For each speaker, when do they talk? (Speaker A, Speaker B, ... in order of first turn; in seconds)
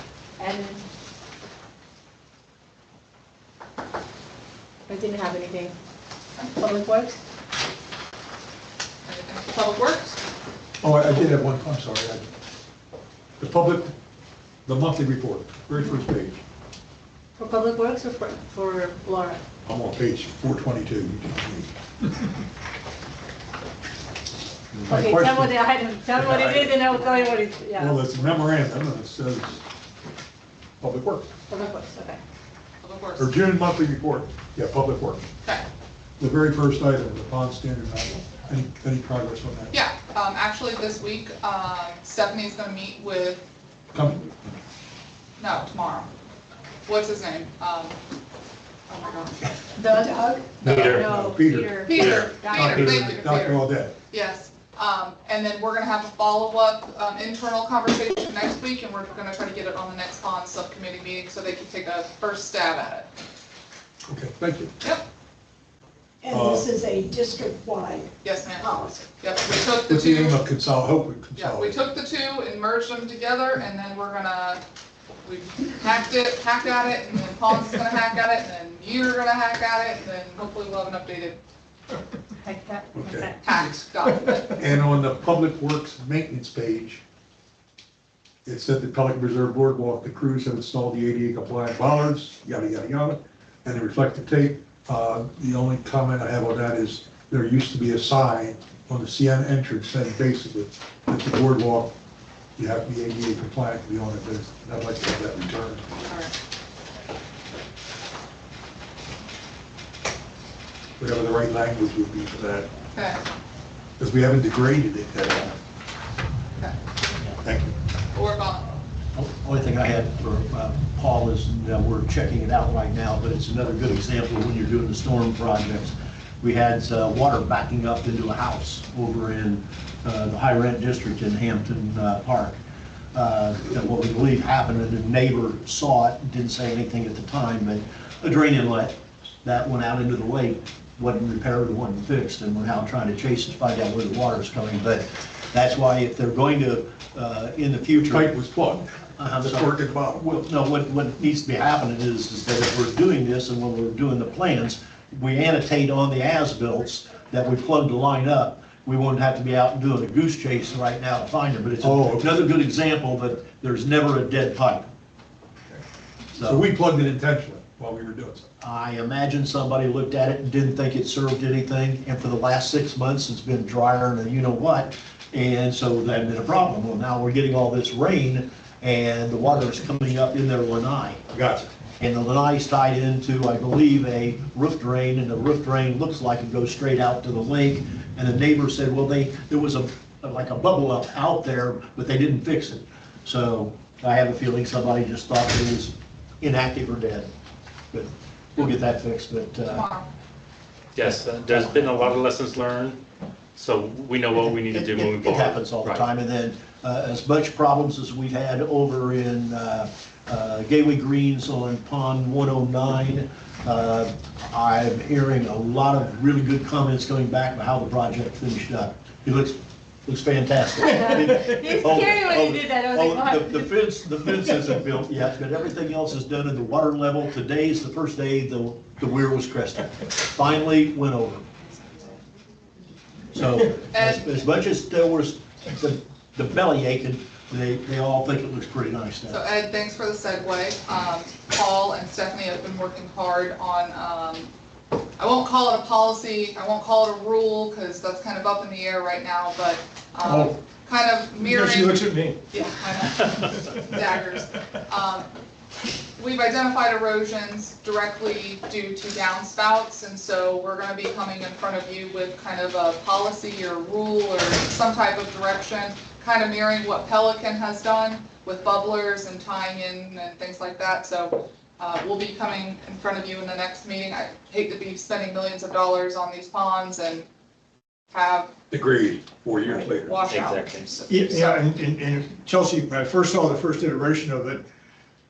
Speaker A: 0.4-0.9, 4.9-5.7, 6.6-7.2, 17.4-19.4, 24.9-28.1, 31.5-32.2, 49.8-53.0, 82.4-83.6, 220.9-223.7
Speaker B: 9.0-10.2, 32.8-33.4, 39.7-43.5, 45.4-46.1, 46.9-48.0, 48.9-49.5, 51.9-63.1, 68.2-70.4, 71.3-74.6, 75.2-81.4, 83.4-84.6, 106.0-106.3, 112.9-113.2, 118.1-118.7, 199.6-200.1, 233.9-234.3, 239.3-244.5, 245.2-255.2, 256.2-277.2, 278.1-278.5, 280.1-281.6
Speaker C: 10.8-12.3, 13.4-13.9, 14.7-16.4, 19.6-22.1, 24.7-26.8, 27.8-29.6, 30.8-31.3, 33.2-35.2, 36.2-39.8, 43.9-44.4, 50.6-53.9, 64.1-64.7, 66.3-66.7, 69.8-71.8, 82.9-83.3, 84.5-87.0, 88.4-102.0, 102.6-105.9, 111.0-112.7, 114.0-115.6, 117.4-117.8, 147.9-150.3, 161.8-162.4, 166.4-168.5, 181.3-181.7, 278.7-280.1
Speaker D: 49.9-50.7, 66.2-69.0
Speaker E: 50.7-51.1, 52.0-52.2, 200.9-203.0, 203.6-206.1, 280.1-281.0
Speaker F: 119.1-132.6, 133.1-148.3, 149.2-164.9, 166.3-166.6, 168.6-181.2, 182.0-197.3, 197.9-199.8, 201.0-202.1, 204.4-231.4, 233.3-239.4
Speaker G: 250.2-250.5, 251.4-252.4, 281.1-284.6